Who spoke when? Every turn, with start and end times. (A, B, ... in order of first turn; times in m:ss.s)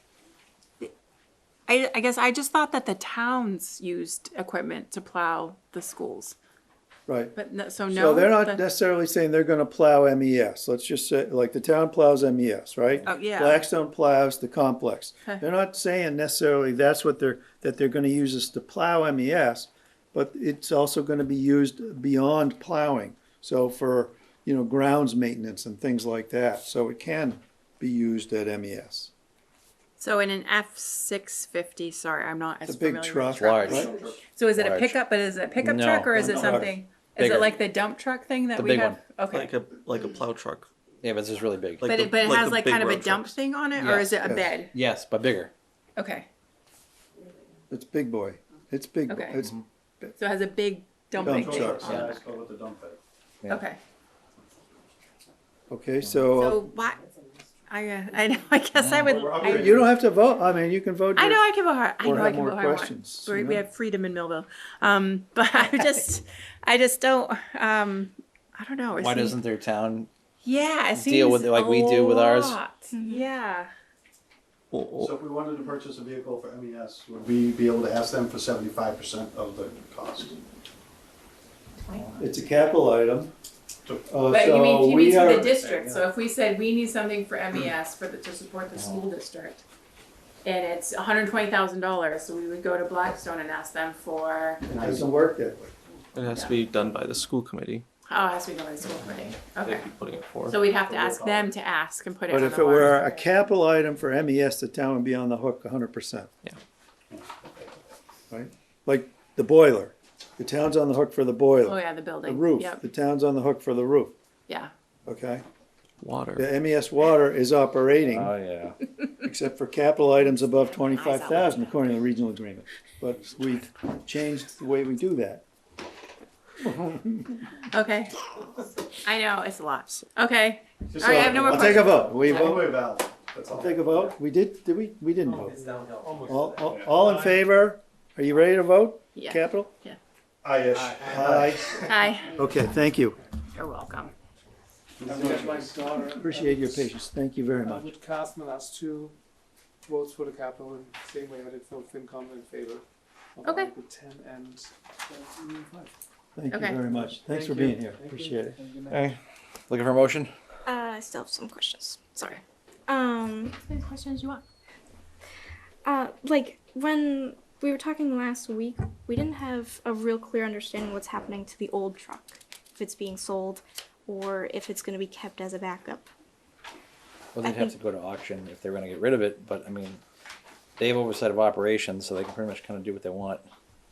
0:01.7-0:06.3 A
0:07.1-0:07.3 B
0:07.3-0:08.6 A
0:07.9-0:29.1 B
0:13.0-0:13.7 A
0:30.0-0:39.5 A
0:32.6-0:33.9 B
0:33.3-0:33.9 C
0:33.7-0:34.2 D
0:34.5-0:35.0 C
0:35.6-0:36.6 C
0:36.1-0:36.8 B
0:37.2-0:37.5 C
0:38.6-0:39.0 C
0:39.3-0:40.7 E
0:41.0-0:41.9 C
0:41.8-0:43.4 E
0:41.8-0:44.7 A
0:43.8-0:44.2 C
0:44.2-0:44.6 B
0:44.7-0:45.5 C
0:46.0-0:46.3 A
0:47.7-0:50.1 B
0:49.1-0:49.4 A
0:50.2-0:52.3 A
0:51.2-0:53.0 D
0:51.2-0:52.0 B
0:51.8-0:52.1 C
0:53.5-0:53.8 A
0:55.7-0:56.7 B
0:56.3-0:57.1 A
0:57.7-0:59.8 A
0:58.8-0:59.1 C
0:59.0-0:59.9 D
0:59.4-1:01.4 B
1:01.1-1:09.4 A
1:02.0-1:03.6 B
1:09.0-1:10.1 C
1:10.4-1:13.7 A
1:11.0-1:12.6 C
1:12.9-1:13.2 F
1:14.7-1:15.1 E
1:15.0-1:20.4 D
1:22.2-1:23.3 B
1:23.8-1:24.2 D
1:24.1-1:25.4 B
1:24.2-1:29.6 A
1:25.3-1:26.0 D
1:30.4-1:34.7 A
1:34.7-1:35.7 B
1:34.7-1:35.1 D
1:36.1-1:37.8 E
1:36.3-1:36.6 A
1:38.0-1:39.9 A
1:39.6-1:40.6 E
1:40.4-1:43.0 A
1:40.7-1:41.5 D
1:42.3-1:46.3 B
1:48.3-1:54.1 B
1:51.6-1:52.8 A
1:55.0-1:55.4 B
1:56.0-1:56.4 E
1:56.4-1:58.3 B
1:58.1-1:58.8 C
1:59.2-2:05.4 B
2:00.5-2:01.8 A
2:06.6-2:07.3 B
2:07.6-2:08.3 A
2:09.0-2:12.5 A
2:10.9-2:14.1 D
2:11.0-2:12.8 B
2:13.5-2:15.6 B
2:15.2-2:17.4 G
2:15.7-2:16.3 C
2:16.2-2:19.7 B
2:16.7-2:17.0 D
2:19.1-2:20.0 A
2:20.4-2:21.9 D
2:21.0-2:23.2 B
2:21.8-2:22.4 A
2:23.5-2:24.1 A
2:25.0-2:25.9 D
2:25.0-2:26.9 G
2:26.0-2:27.9 B
2:27.5-2:29.2 G
2:29.8-2:32.8 G
2:33.4-2:35.9 G
2:33.4-2:33.7 A
2:36.4-2:38.6 B
2:36.5-2:36.8 A
2:36.8-2:39.0 G
2:38.9-2:39.2 C
2:39.7-2:40.3 C
2:40.6-2:42.1 F
2:42.2-2:42.4 A
2:42.9-2:43.6 F
2:43.6-2:44.4 A
2:45.8-2:56.1 F
2:57.3-3:00.0 C
2:57.4-2:57.7 F
3:00.8-3:03.4 C